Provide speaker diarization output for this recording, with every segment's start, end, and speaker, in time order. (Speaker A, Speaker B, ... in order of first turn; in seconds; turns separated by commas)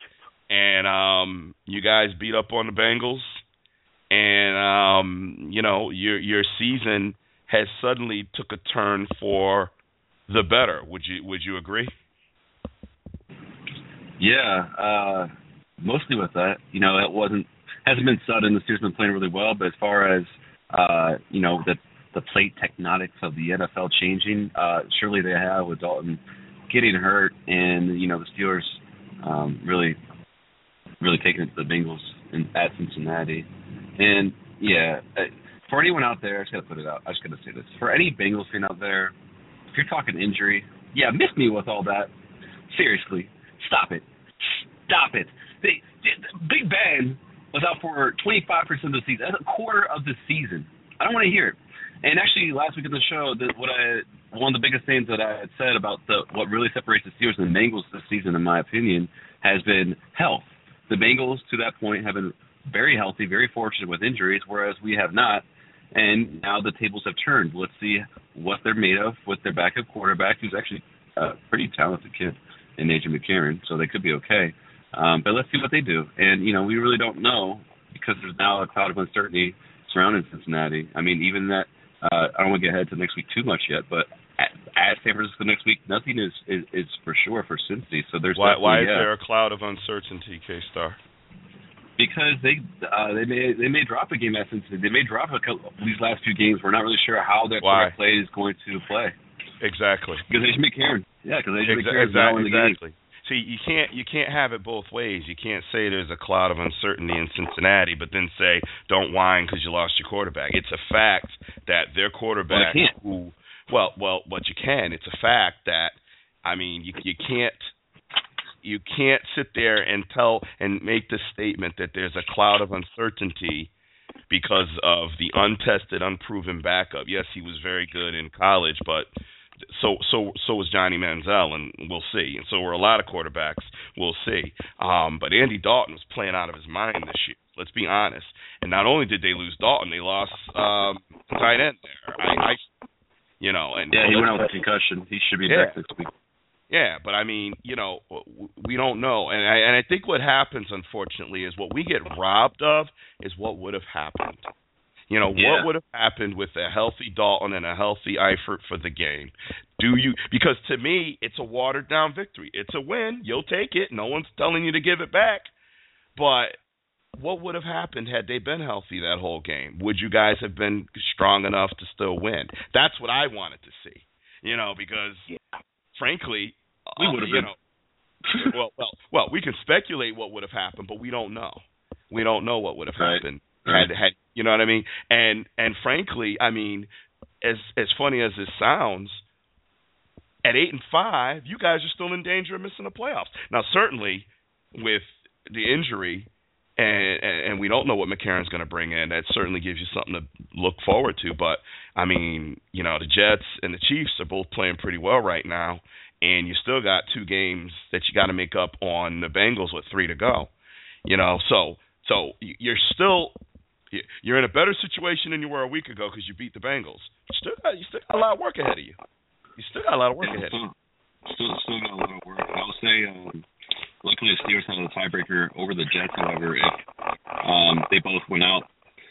Speaker A: 0.5-3.4, Speaker A: 4.1-9.7, Speaker A: 10.3-11.9, Speaker B: 14.2-15.3, Speaker B: 15.8-30.0, Speaker B: 31.0-39.1, Speaker B: 39.7-42.1, Speaker B: 42.7-44.0, Speaker B: 44.9-89.1, Speaker A: 88.3-91.0, Speaker B: 92.0-99.2, Speaker A: 97.6-97.9, Speaker A: 99.6-100.2, Speaker B: 100.3-102.8, Speaker A: 101.7-117.7, Speaker B: 112.5-112.9, Speaker A: 118.6-123.7, Speaker A: 124.3-129.1, Speaker A: 129.7-142.6, Speaker A: 143.4-144.5, Speaker B: 143.9-146.1, Speaker A: 145.4-145.8, Speaker A: 146.7-154.5, Speaker A: 155.1-165.5, Speaker B: 155.3-155.7, Speaker A: 166.2-166.6, Speaker A: 167.2-175.3, Speaker A: 175.9-177.6, Speaker B: 177.0-177.5, Speaker B: 178.3-178.5, Speaker A: 178.4-186.9, Speaker B: 183.0-183.9, Speaker A: 187.4-189.2, Speaker A: 190.4-210.5, Speaker A: 211.1-213.4, Speaker A: 213.9-219.0, Speaker A: 219.6-220.6, Speaker B: 220.2-220.7, Speaker B: 221.3-223.5, Speaker B: 224.0-226.8, Speaker B: 227.4-228.7